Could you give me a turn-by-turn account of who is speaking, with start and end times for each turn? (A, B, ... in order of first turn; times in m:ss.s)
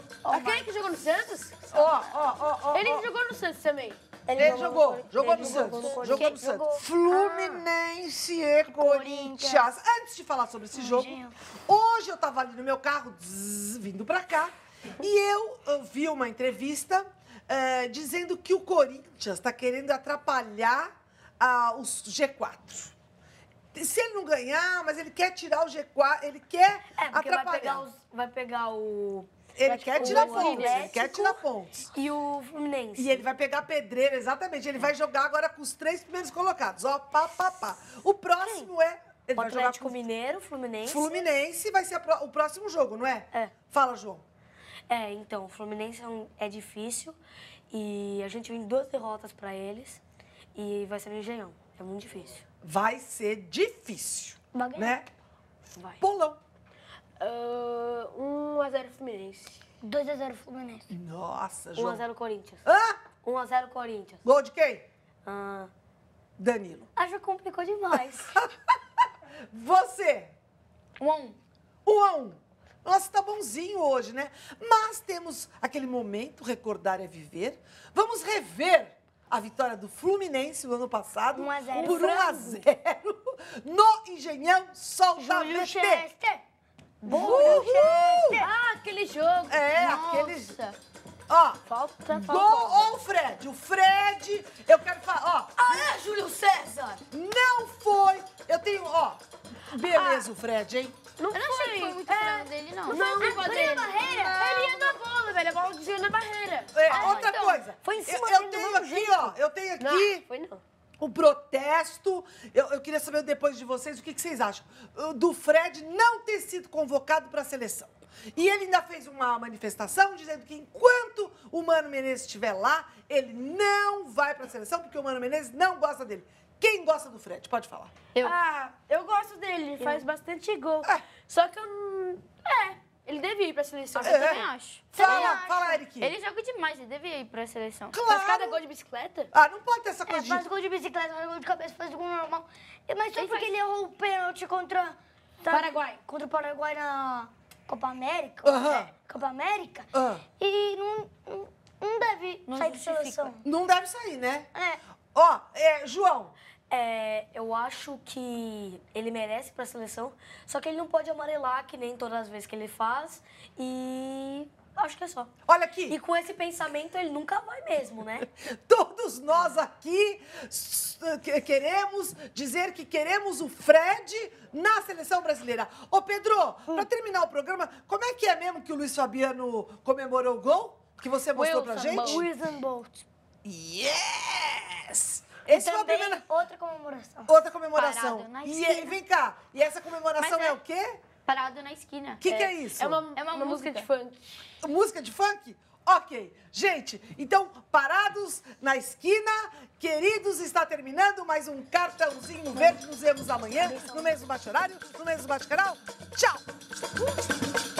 0:00.2-0:00.7 A
0:00.3-0:01.8 B
0:01.7-0:03.1 C
0:02.7-0:04.0 B
0:04.2-0:06.3 D
0:04.4-0:22.9 C
0:05.2-0:07.5 E
0:08.6-0:09.7 E
0:10.7-0:11.3 E
0:23.7-0:27.9 C
0:27.0-0:33.3 D
0:29.6-0:31.8 C
0:29.9-0:31.3 B
0:33.0-0:40.0 C
0:39.3-0:41.1 D
0:40.8-0:44.2 C
0:44.9-0:47.2 D
0:47.7-0:50.0 D
0:50.5-0:52.4 D
0:52.6-0:55.1 C
0:54.5-0:54.9 E
0:55.8-0:56.0 D
0:56.0-0:56.4 C
0:57.2-0:59.6 B
0:59.8-1:00.9 E
1:00.9-1:02.0 C
1:01.8-1:02.6 D
1:02.6-1:03.0 C
1:03.2-1:04.2 D
1:04.2-1:04.9 C
1:05.2-1:05.7 D
1:06.4-1:06.9 C
1:06.9-1:08.4 D
1:08.3-1:08.7 C
1:09.5-1:10.3 C
1:11.0-1:11.4 A
1:11.8-1:26.1 C
1:21.3-1:22.4 E
1:21.8-1:22.6 B
1:25.2-1:26.4 E
1:27.0-1:28.5 E
1:27.0-1:27.5 B
1:27.1-1:28.4 C
1:27.1-1:27.6 D
1:28.3-1:29.7 B
1:29.5-1:30.6 C
1:29.7-1:30.8 A
1:31.3-1:35.9 C
1:31.6-1:32.9 B
1:35.6-1:37.0 D
1:37.1-1:40.9 C
1:41.2-1:46.9 B
1:41.3-1:44.0 A
1:43.0-1:44.4 E
1:43.2-1:44.9 D
1:46.7-1:50.2 C
1:46.9-1:47.6 A
1:46.9-1:49.3 D
1:49.8-1:50.6 B
1:51.0-2:07.9 C
2:08.2-2:14.5 B
2:13.9-2:18.0 A
2:14.0-2:16.1 C
2:14.9-2:15.8 E
2:17.9-2:18.6 C
2:18.1-2:19.3 B
2:19.3-2:20.4 C
2:20.0-2:33.4 E
2:23.1-2:23.6 A
2:25.5-2:26.0 B
2:28.4-2:28.9 C
2:29.9-2:30.2 C
2:32.4-2:33.4 A
2:33.4-2:34.5 C
2:34.5-2:34.8 E
2:35.1-2:36.3 C
2:36.7-2:45.3 D
2:45.4-2:46.0 C
2:45.9-2:48.3 D
2:48.4-3:02.2 C
3:01.3-3:02.3 B
3:01.9-3:03.0 E
3:03.4-3:06.3 C
3:05.5-3:07.3 E
3:07.2-3:11.0 C
3:07.7-3:09.0 A
3:10.2-3:10.6 A
3:11.2-3:12.2 A
3:12.2-3:13.0 C
3:12.2-3:14.5 B
3:13.1-3:13.9 A
3:14.6-3:26.4 C
3:23.6-3:24.2 E